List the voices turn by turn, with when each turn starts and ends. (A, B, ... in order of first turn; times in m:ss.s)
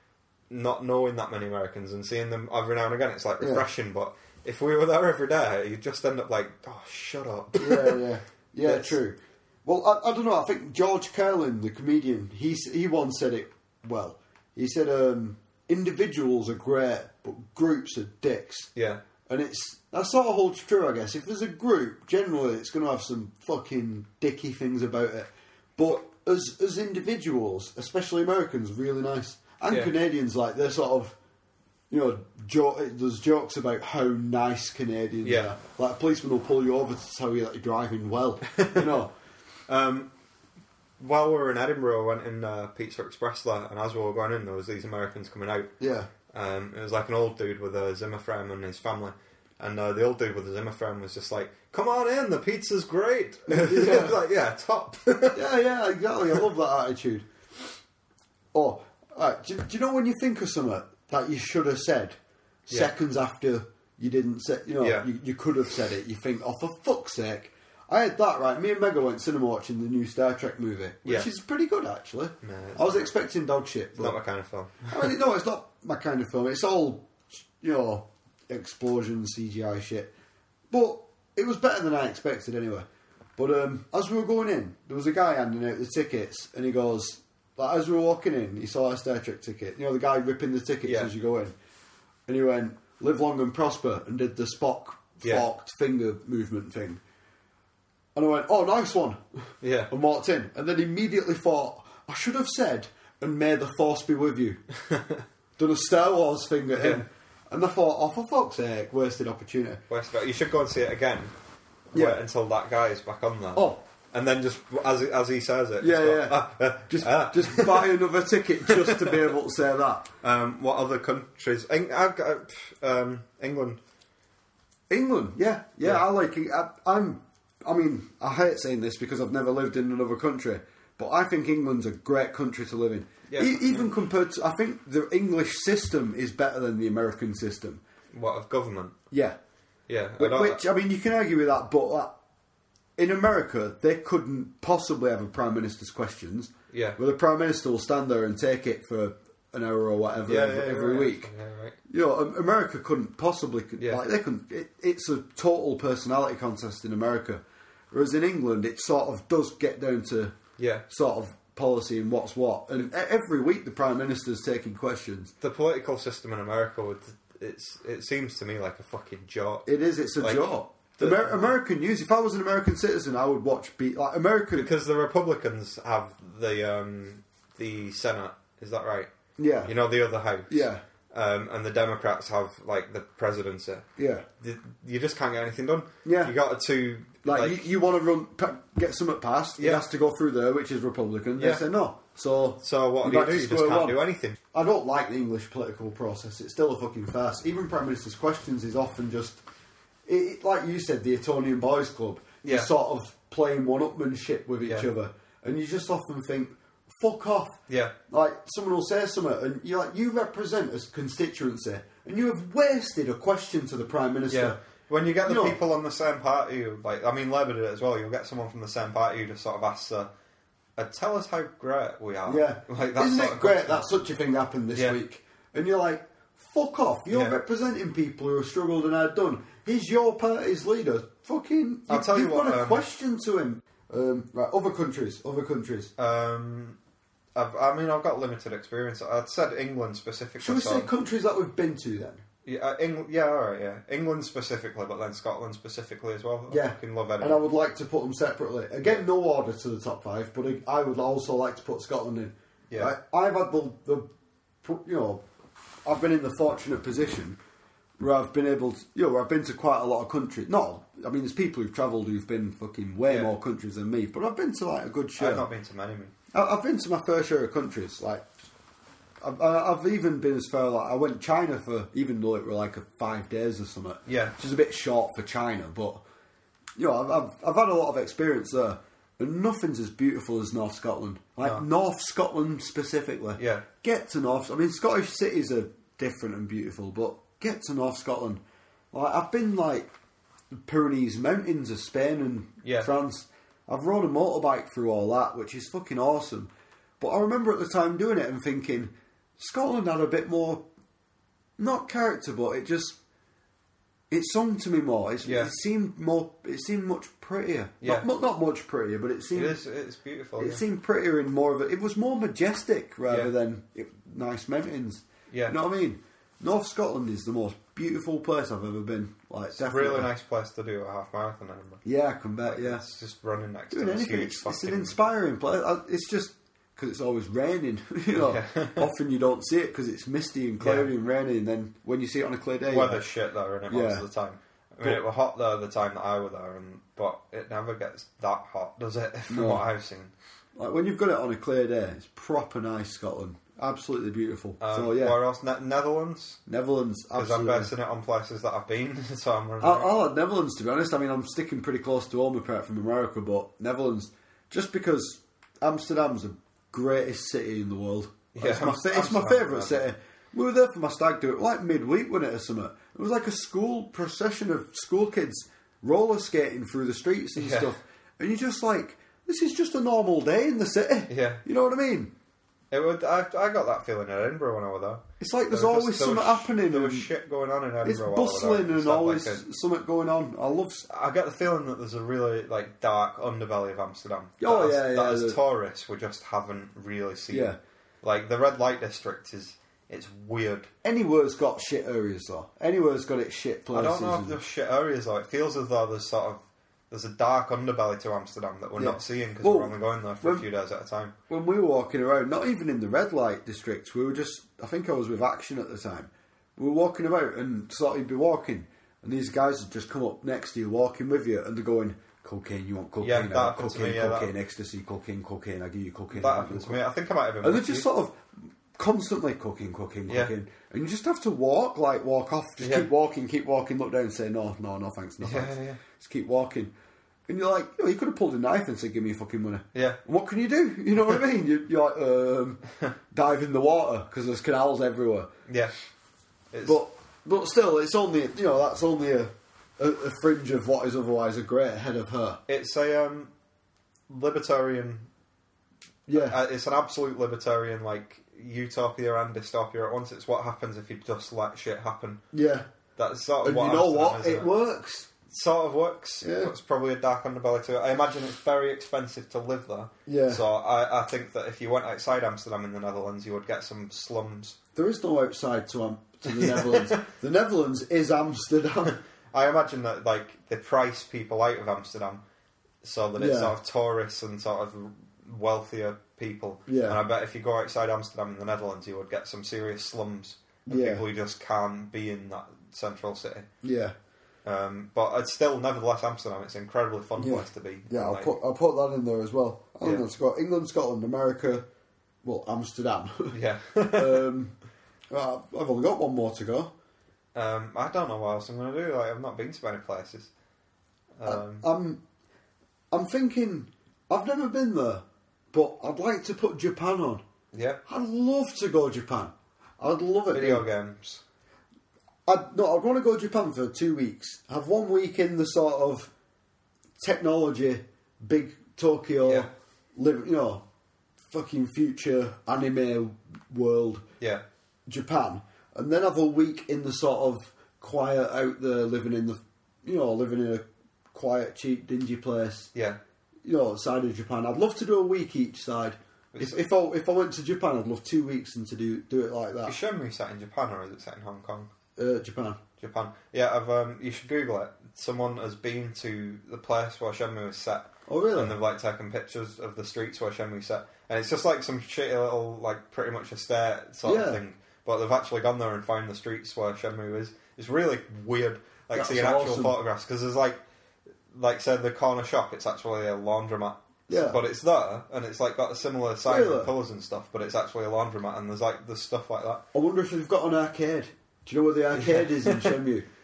0:00.5-0:08.0 A
0:03.4-0:03.7 B
0:07.6-0:18.7 B
0:08.6-0:09.0 A
0:18.8-0:19.0 A
0:19.3-0:31.2 B
0:29.7-0:29.9 A
0:31.9-0:39.1 B
0:35.2-0:35.6 A
0:38.5-0:39.0 A
0:39.7-0:40.1 A
0:41.0-0:45.7 A
0:45.8-0:46.1 B
0:46.3-0:55.4 A
0:53.5-0:54.2 B
0:55.3-0:57.3 B
0:58.5-1:14.2 B
1:04.8-1:05.1 A
1:11.0-1:11.3 A
1:12.4-1:13.1 A
1:14.0-1:15.1 A
1:14.9-1:20.1 B
1:20.7-1:31.6 B
1:30.9-1:31.1 A
1:32.3-1:37.0 B
1:38.2-1:44.6 B
1:39.6-1:39.9 A
1:44.8-1:45.2 A
1:45.6-1:49.8 B
1:46.8-1:47.0 A
1:49.9-1:51.3 A
1:51.9-1:58.0 A
1:51.9-1:52.2 B
1:53.6-1:53.8 B
1:55.8-2:00.1 B
1:58.7-1:59.3 A
2:00.2-2:03.8 A
2:04.9-2:17.8 B
2:05.8-2:06.1 A
2:13.3-2:13.9 A
2:18.1-2:19.0 A
2:19.1-2:19.4 B
2:19.9-2:20.6 A
2:20.2-2:22.2 B
2:23.0-2:31.3 B
2:26.7-2:27.0 A
2:30.3-2:31.8 A
2:31.9-2:40.4 B
2:33.8-2:34.0 A
2:40.6-2:40.8 A
2:40.9-2:45.3 B
2:45.4-2:49.7 A
2:49.7-2:54.7 B
2:50.2-2:51.5 A
2:54.5-2:59.1 A
2:59.4-2:59.8 B
2:59.6-3:03.9 A
3:00.5-3:00.8 B
3:04.0-3:04.3 B
3:04.4-3:07.6 A
3:06.0-3:06.4 B
3:07.2-3:19.4 B
3:09.6-3:09.9 A
3:11.4-3:11.6 A
3:12.6-3:14.4 A
3:20.1-3:34.6 B
3:22.4-3:22.7 A
3:27.7-3:27.9 A
3:34.3-3:40.1 A
3:35.2-3:35.6 B
3:40.8-3:43.9 A
3:42.3-3:55.9 B
3:47.1-3:47.4 A
3:51.9-3:52.9 A
3:56.0-3:56.8 A
3:57.4-4:00.9 A
4:00.4-4:02.2 B
4:02.5-4:07.4 A
4:06.5-4:14.1 B
4:14.6-4:15.2 B
4:15.8-4:17.4 B
4:18.0-4:25.5 B
4:23.1-4:23.3 A
4:25.2-4:26.1 A
4:26.3-4:28.3 B
4:29.2-4:36.0 B
4:34.1-4:34.4 A
4:36.8-4:48.4 B
4:43.4-4:43.6 A
4:48.9-4:49.9 B
4:50.5-5:00.6 B
4:52.6-4:52.9 A
5:01.6-5:03.0 B
5:04.1-5:09.6 B
5:05.2-5:05.5 A
5:07.8-5:08.1 A
5:09.3-5:10.6 A
5:10.4-5:20.1 B
5:15.3-5:15.6 A
5:19.5-5:21.8 A
5:21.8-5:22.8 B
5:22.4-5:25.0 A
5:23.7-5:33.1 B
5:28.1-5:28.9 A
5:30.6-5:30.9 A
5:32.7-5:40.1 A
5:33.7-5:34.0 B
5:39.3-5:39.6 B
5:40.6-5:45.2 B
5:44.6-5:46.4 A
5:46.5-5:47.7 B
5:47.2-5:49.9 A
5:49.6-6:12.1 B
5:58.3-5:59.9 A
6:07.4-6:07.7 A
6:11.1-6:11.4 A
6:12.7-6:19.4 A
6:15.2-6:17.1 B
6:17.8-6:20.8 B
6:20.9-6:30.7 A
6:24.4-6:25.4 B
6:27.3-6:27.6 B
6:30.8-6:34.4 B
6:33.7-6:41.1 A
6:38.8-6:40.4 B
6:41.3-6:56.8 B
6:53.0-6:54.3 A
6:56.1-6:57.9 A
6:57.4-7:06.7 B
7:00.1-7:00.3 A
7:02.6-7:02.9 A
7:05.2-7:05.8 A
7:07.3-7:15.3 B
7:09.7-7:10.0 A
7:15.5-7:15.7 A
7:16.5-7:16.8 A
7:16.6-7:22.4 B
7:22.5-7:23.3 A
7:24.1-7:25.1 A
7:26.1-7:26.4 B
7:26.1-7:32.2 A
7:32.3-7:32.7 B
7:33.0-7:34.5 A
7:33.4-7:35.1 B
7:35.3-7:44.6 A
7:36.2-7:36.5 B
7:40.1-7:40.4 B
7:44.8-7:49.0 B
7:46.2-7:47.1 A
7:48.9-7:52.2 A
7:52.8-8:03.5 A
7:53.2-7:53.6 B
7:56.7-7:57.0 B
8:00.7-8:01.0 B
8:03.6-8:04.0 B
8:04.4-8:08.4 A
8:07.2-8:11.7 B
8:12.2-8:13.4 B
8:13.3-8:14.3 A
8:13.9-8:14.5 B
8:15.1-8:16.7 B
8:17.4-8:20.3 A
8:21.2-8:21.7 A
8:21.2-8:22.0 B
8:22.9-8:27.2 B
8:27.5-8:27.8 A
8:27.9-8:30.7 B
8:30.3-8:31.2 A
8:32.3-8:36.1 B
8:37.0-8:40.6 B
8:39.2-8:39.5 A
8:41.3-8:44.0 B
8:44.9-8:52.7 B
8:52.7-8:53.0 A
8:53.4-8:59.8 B
8:56.3-8:56.6 A
8:59.7-9:01.7 A
9:02.0-9:02.6 B
9:02.8-9:20.6 A
9:08.1-9:08.6 B
9:14.0-9:14.4 B
9:18.9-9:19.8 B
9:21.3-9:29.6 A
9:24.1-9:24.4 B
9:26.2-9:26.7 B
9:29.7-9:33.1 B
9:31.9-9:32.8 A